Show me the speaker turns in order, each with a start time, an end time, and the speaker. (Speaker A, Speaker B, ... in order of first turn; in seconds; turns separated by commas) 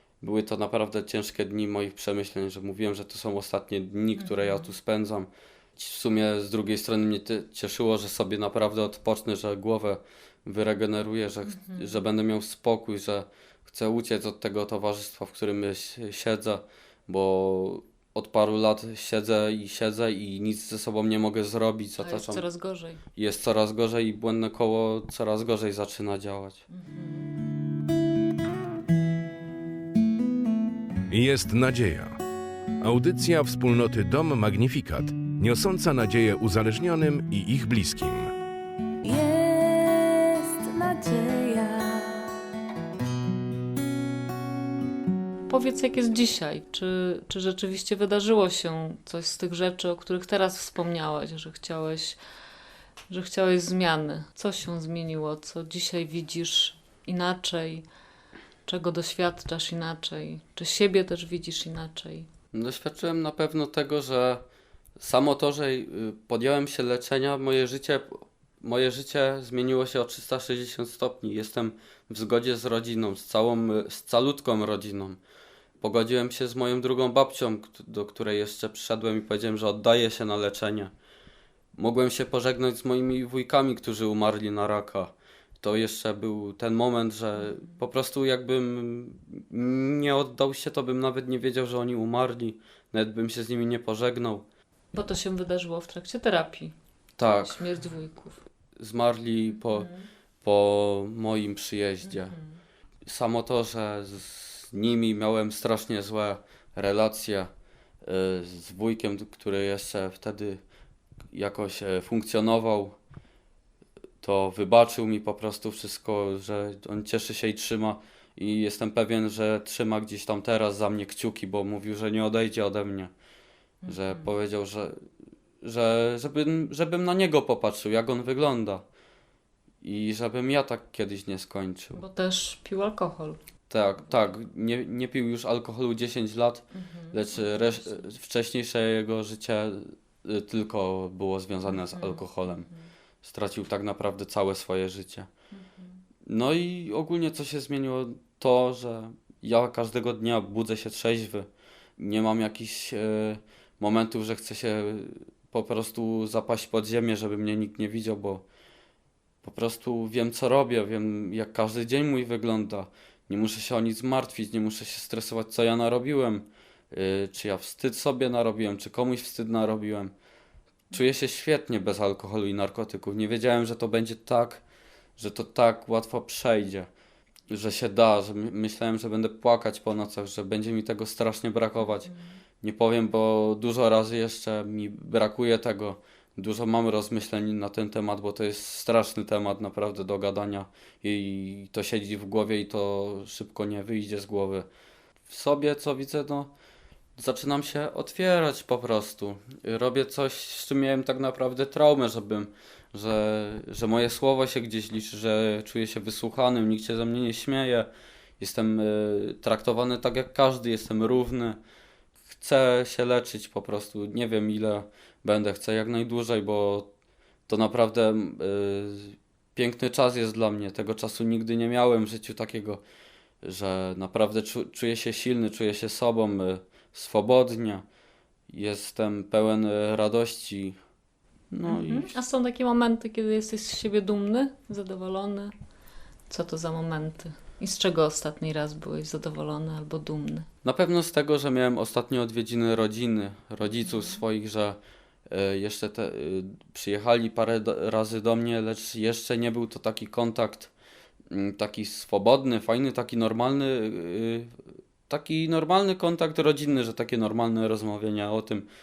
Speaker A: 0.2-22.4, Speaker B: 4.2-4.7, Speaker B: 11.6-11.9, Speaker B: 22.0-23.0, Speaker A: 23.1-26.6, Speaker B: 26.7-27.3, Speaker C: 31.1-32.1, Speaker C: 32.8-38.3, Speaker D: 39.0-42.1, Speaker B: 45.5-52.2, Speaker B: 53.1-57.8, Speaker B: 58.6-62.3, Speaker A: 62.5-64.4, Speaker A: 65.0-75.2, Speaker A: 75.8-80.9, Speaker A: 81.8-94.4, Speaker B: 94.9-96.7, Speaker A: 97.2-97.7, Speaker B: 97.3-98.4, Speaker A: 98.8-99.9, Speaker B: 99.6-100.1, Speaker A: 100.4-102.4, Speaker A: 103.0-107.5, Speaker A: 108.0-110.6, Speaker A: 111.3-113.0, Speaker A: 114.2-123.1, Speaker B: 123.8-124.2, Speaker A: 123.9-125.0, Speaker A: 125.6-128.8, Speaker A: 129.8-132.0, Speaker B: 131.9-133.4, Speaker A: 133.7-142.7, Speaker B: 136.7-138.0, Speaker B: 141.7-142.8, Speaker A: 143.2-145.3, Speaker B: 145.5-146.0, Speaker A: 146.2-158.4, Speaker A: 159.4-170.1, Speaker A: 170.9-174.6, Speaker A: 175.2-176.9, Speaker A: 177.5-182.1, Speaker B: 181.8-182.4, Speaker A: 182.6-194.7, Speaker A: 195.3-196.5, Speaker A: 197.2-211.6, Speaker A: 212.3-216.9, Speaker A: 217.5-222.8, Speaker A: 223.4-227.8, Speaker A: 228.5-230.8, Speaker A: 231.5-232.1, Speaker B: 231.7-235.5, Speaker B: 236.3-240.5, Speaker A: 240.6-244.8, Speaker B: 243.8-244.2, Speaker A: 245.3-250.7, Speaker A: 251.3-258.7